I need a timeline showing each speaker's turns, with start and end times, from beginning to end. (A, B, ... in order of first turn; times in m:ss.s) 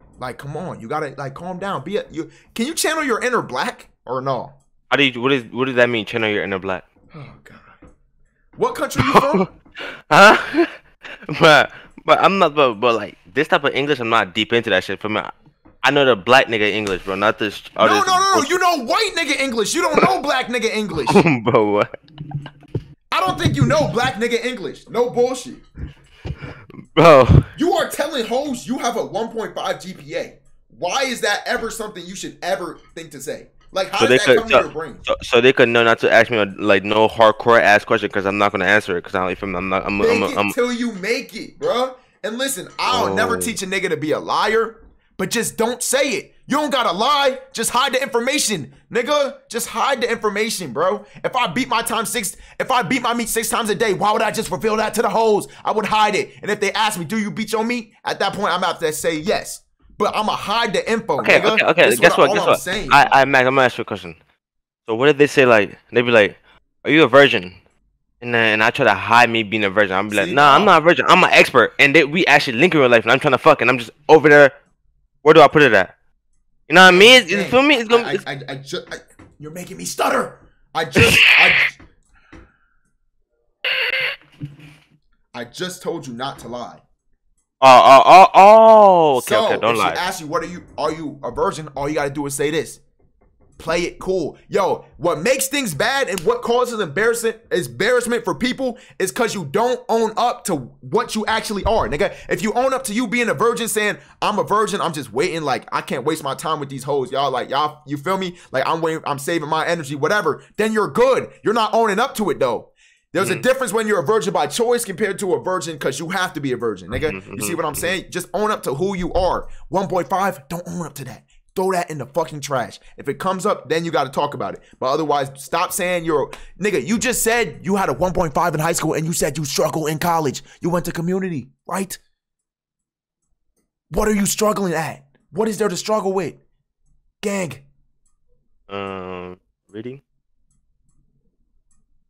0:00.2-0:04.6 A
0:04.9-0:06.8 B
0:07.1-0:07.8 A
0:08.6-0:09.5 A
0:09.0-0:09.5 B
0:10.1-0:10.7 B
0:11.3-0:15.3 B
0:15.8-0:18.6 B
0:17.8-0:21.2 A
0:21.1-0:21.9 B
0:23.1-0:25.6 A
0:27.0-0:27.5 B
0:27.6-0:35.1 A
0:34.0-0:40.6 B
0:40.0-1:03.2 A
0:42.9-0:43.6 B
1:01.2-1:04.2 B
1:04.9-1:07.6 B
1:08.2-1:14.5 B
1:10.1-1:10.7 A
1:15.2-1:15.9 B
1:16.7-1:18.2 B
1:16.8-1:21.8 A
1:21.0-1:21.3 B
1:25.3-1:26.8 A
1:27.6-1:30.0 B
1:29.2-1:32.8 A
1:33.6-2:12.0 A
1:53.2-1:53.5 B
1:56.9-1:58.0 B
2:13.9-2:16.4 A
2:17.2-2:17.6 A
2:18.7-2:20.0 B